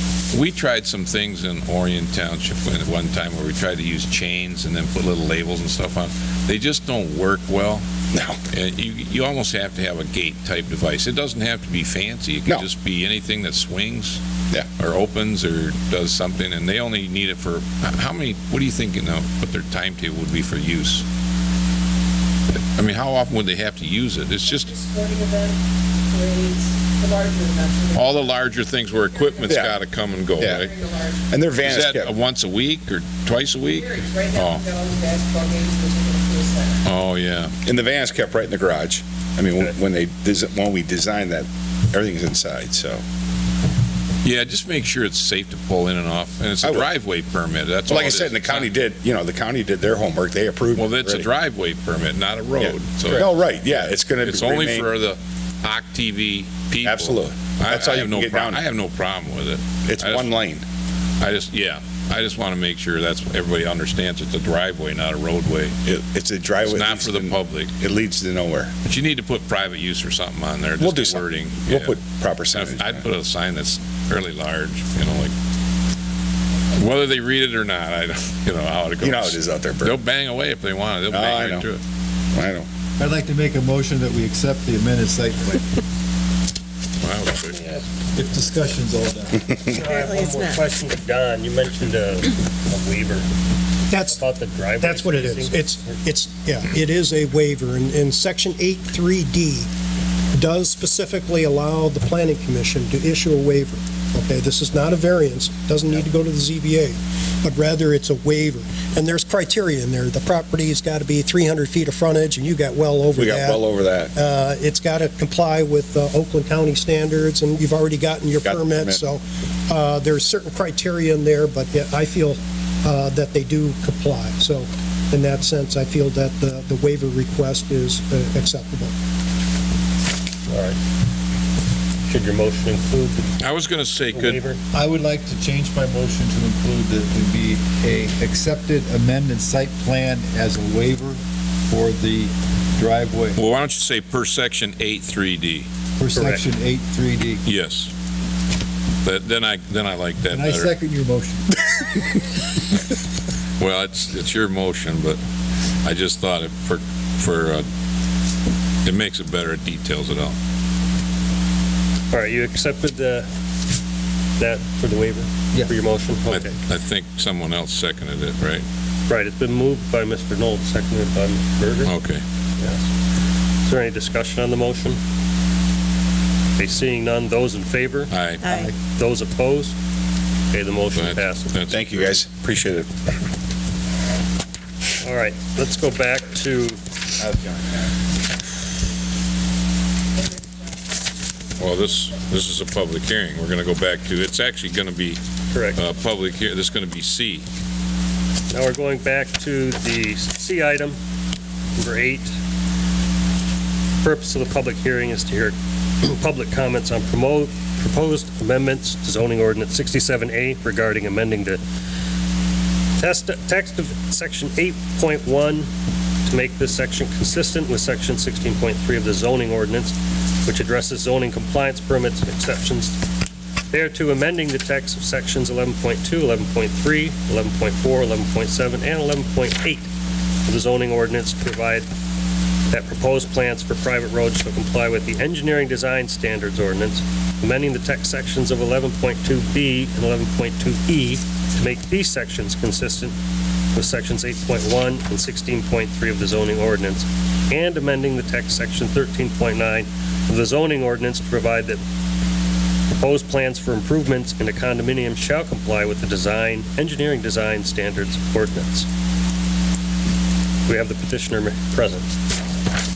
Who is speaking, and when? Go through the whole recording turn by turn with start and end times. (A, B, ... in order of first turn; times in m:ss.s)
0:00.3-0:07.8 A
0:08.1-0:08.4 B
0:08.5-0:14.2 A
0:14.8-0:21.0 A
0:22.8-0:24.7 A
0:24.6-0:25.6 C
0:26.1-0:28.3 C
0:27.9-0:30.7 A
0:29.5-0:29.7 B
0:30.4-0:30.7 B
0:30.6-0:31.3 C
0:31.3-0:32.1 B
0:31.6-0:34.6 A
0:33.8-0:36.8 C
0:36.8-0:37.5 A
0:37.6-0:43.0 B
0:44.2-0:48.7 A
0:46.6-0:46.9 B
0:47.9-0:51.3 B
0:50.8-1:00.3 A
0:52.6-0:54.9 B
0:56.8-0:58.6 B
0:59.8-1:00.6 B
1:01.2-1:05.7 A
1:05.8-1:08.7 B
1:06.6-1:07.7 A
1:08.8-1:11.9 A
1:10.8-1:13.0 B
1:12.5-1:15.3 A
1:16.7-1:21.8 A
1:19.0-1:20.0 B
1:21.1-1:21.6 B
1:22.3-1:22.7 B
1:23.0-1:25.8 D
1:27.0-1:27.8 A
1:28.1-1:29.6 D
1:29.6-1:33.3 E
1:33.9-1:34.2 F
1:34.0-1:36.0 E
1:34.8-1:39.7 F
1:40.3-1:53.6 F
1:53.2-1:54.1 B
1:54.1-2:08.9 F
1:58.4-1:59.0 B
2:10.5-2:10.8 E
2:12.1-2:13.3 E
2:13.4-2:14.4 A
2:14.1-2:14.6 E
2:14.7-2:23.4 D
2:23.4-2:25.7 A
2:26.0-2:27.4 D
2:26.1-2:26.4 E
2:27.4-2:27.9 A
2:29.0-2:30.7 A
2:30.3-2:31.6 D
2:33.6-2:35.2 A
2:35.8-2:37.6 A
2:38.8-2:40.4 A
2:42.1-2:43.2 E
2:44.4-2:46.6 E
2:46.3-2:48.6 A
2:49.1-2:51.9 E
2:51.8-2:52.2 A
2:52.6-2:52.8 E
2:53.6-2:55.0 E
2:56.6-2:59.8 E
2:58.1-2:58.5 A
2:58.4-2:58.7 D
3:00.5-3:01.5 E
3:01.0-3:02.2 A
3:01.7-3:03.0 B
3:05.0-3:06.8 E
3:07.2-3:07.8 B
3:11.6-3:15.2 A
3:15.5-3:15.8 E
3:15.8-3:17.4 A
3:18.5-3:21.0 E
3:21.8-3:22.3 E
3:24.0-3:31.6 E
3:33.0-3:35.7 E
3:36.2-3:43.0 E
3:43.7-3:49.9 E
3:50.4-3:51.9 E
3:52.7-4:03.1 E
4:03.7-4:11.8 E
4:12.9-4:18.9 E
4:20.7-4:22.1 E